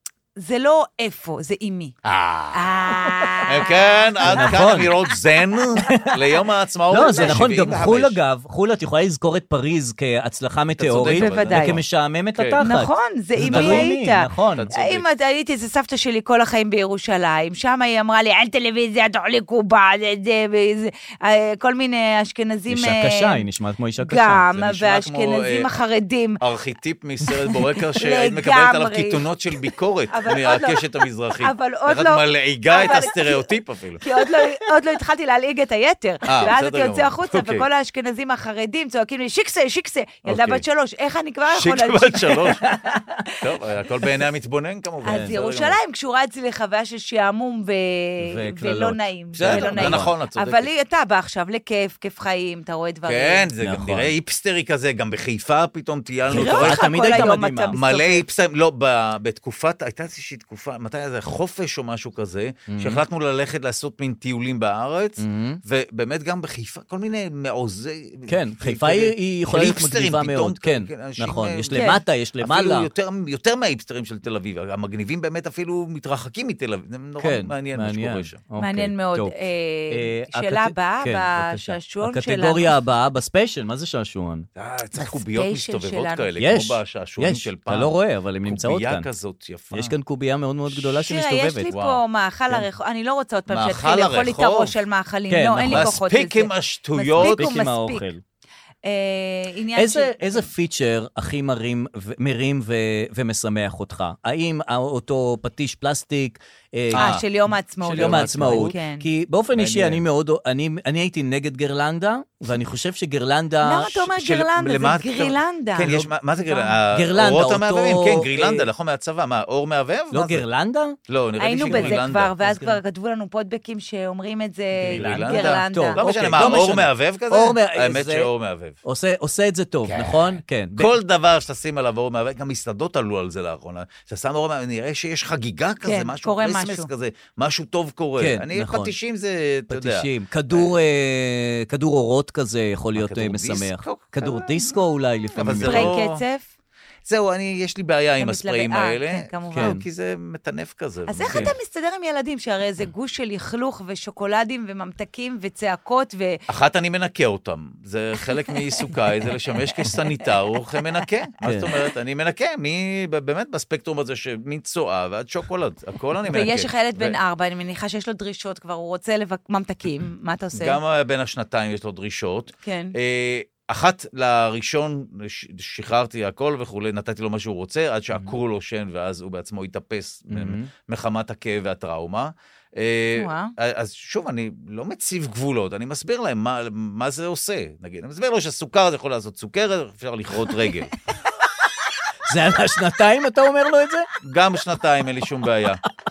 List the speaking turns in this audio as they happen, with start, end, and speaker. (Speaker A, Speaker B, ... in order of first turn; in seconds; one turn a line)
Speaker A: 0.4-1.9
Speaker B: 2.0-8.2
Speaker A: 2.5-4.8
Speaker C: 4.3-4.9
Speaker C: 5.9-6.2
Speaker C: 6.9-14.7
Speaker A: 7.0-7.3
Speaker B: 10.8-11.8
Speaker A: 11.1-11.8
Speaker B: 12.3-12.6
Speaker A: 12.6-23.4
Speaker B: 13.4-13.9
Speaker B: 14.5-15.1
Speaker C: 22.7-24.4
Speaker A: 24.0-26.4
Speaker B: 24.5-25.7
Speaker B: 26.4-34.0
Speaker A: 27.3-29.2
Speaker A: 30.1-30.8
Speaker A: 31.4-33.5
Speaker A: 34.0-43.3
Speaker B: 36.2-37.7
Speaker B: 40.2-40.6
Speaker B: 41.5-42.6
Speaker C: 42.7-43.0
Speaker B: 43.4-45.8
Speaker A: 45.0-53.5
Speaker C: 48.2-50.1
Speaker B: 49.3-50.7
Speaker B: 53.0-78.4
Speaker C: 53.6-54.1
Speaker C: 56.3-57.8
Speaker A: 56.3-58.2
Speaker C: 62.7-63.0
Speaker C: 65.2-65.6
Speaker C: 68.3-72.9
Speaker A: 71.7-72.0
Speaker C: 77.2-79.3
Speaker A: 78.6-82.7
Speaker C: 79.9-84.5
Speaker B: 84.5-87.9
Speaker A: 85.0-86.3
Speaker C: 86.4-89.1
Speaker B: 88.4-89.9
Speaker C: 89.7-91.7
Speaker A: 90.8-98.0
Speaker B: 91.7-92.0
Speaker B: 93.5-94.7
Speaker C: 95.3-95.9
Speaker B: 95.7-97.5
Speaker C: 97.2-98.2
Speaker A: 98.8-100.5
Speaker C: 99.8-107.2
Speaker B: 106.9-107.2
Speaker A: 106.9-109.0
Speaker C: 107.8-114.0
Speaker B: 107.9-108.8
Speaker B: 109.5-110.0
Speaker A: 113.6-116.7
Speaker B: 114.0-120.5
Speaker C: 116.9-118.7
Speaker C: 120.1-121.0
Speaker B: 121.1-122.3
Speaker A: 121.4-126.6
Speaker C: 121.7-122.8
Speaker C: 124.8-128.3
Speaker B: 124.9-128.8
Speaker C: 128.8-130.9
Speaker B: 129.8-140.7
Speaker A: 135.8-136.9
Speaker C: 138.2-138.9
Speaker C: 139.7-145.9
Speaker B: 142.9-144.7
Speaker B: 145.3-146.2
Speaker A: 145.6-146.4
Speaker B: 147.1-151.5
Speaker A: 148.2-149.8
Speaker C: 149.5-149.8
Speaker A: 151.1-156.4
Speaker B: 156.5-167.2
Speaker C: 161.4-161.7
Speaker A: 166.3-170.8
Speaker B: 170.5-190.9
Speaker A: 172.6-172.9
Speaker C: 180.3-180.7
Speaker A: 183.1-183.5
Speaker C: 192.2-194.1
Speaker B: 194.2-195.8